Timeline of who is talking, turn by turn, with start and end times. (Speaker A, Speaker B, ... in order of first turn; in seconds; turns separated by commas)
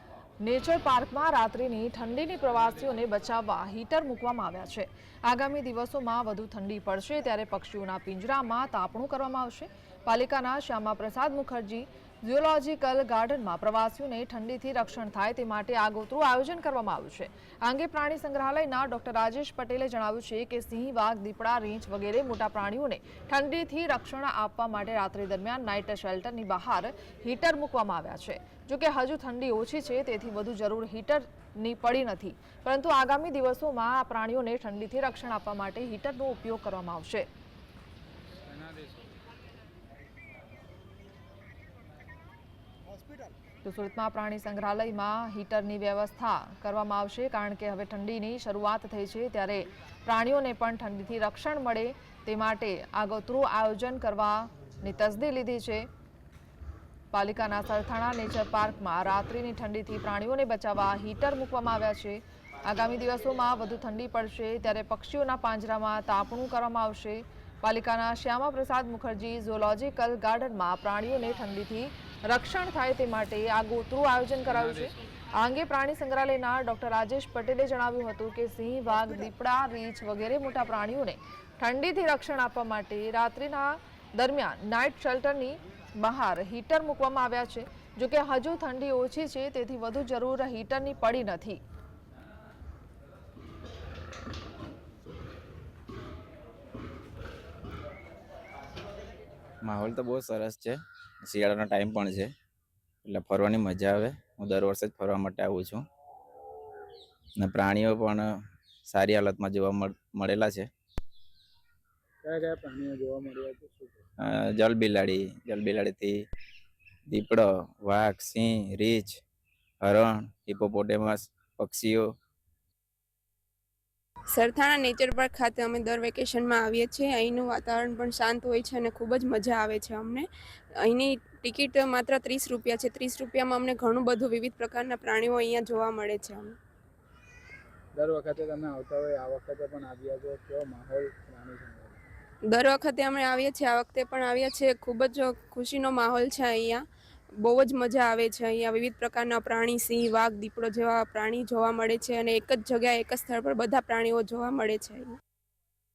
Speaker A: 0.4-37.3, Speaker B: 38.5-38.8, Speaker A: 43.6-55.9, Speaker A: 57.1-91.6, Speaker C: 99.6-102.3, Speaker C: 103.0-105.8, Speaker C: 107.4-108.3, Speaker C: 108.9-110.7, Speaker B: 112.2-114.0, Speaker C: 114.2-116.2, Speaker C: 117.1-119.1, Speaker C: 119.8-122.1, Speaker D: 124.3-130.2, Speaker D: 130.8-136.6, Speaker B: 137.9-142.0, Speaker D: 142.5-146.8, Speaker D: 147.4-155.2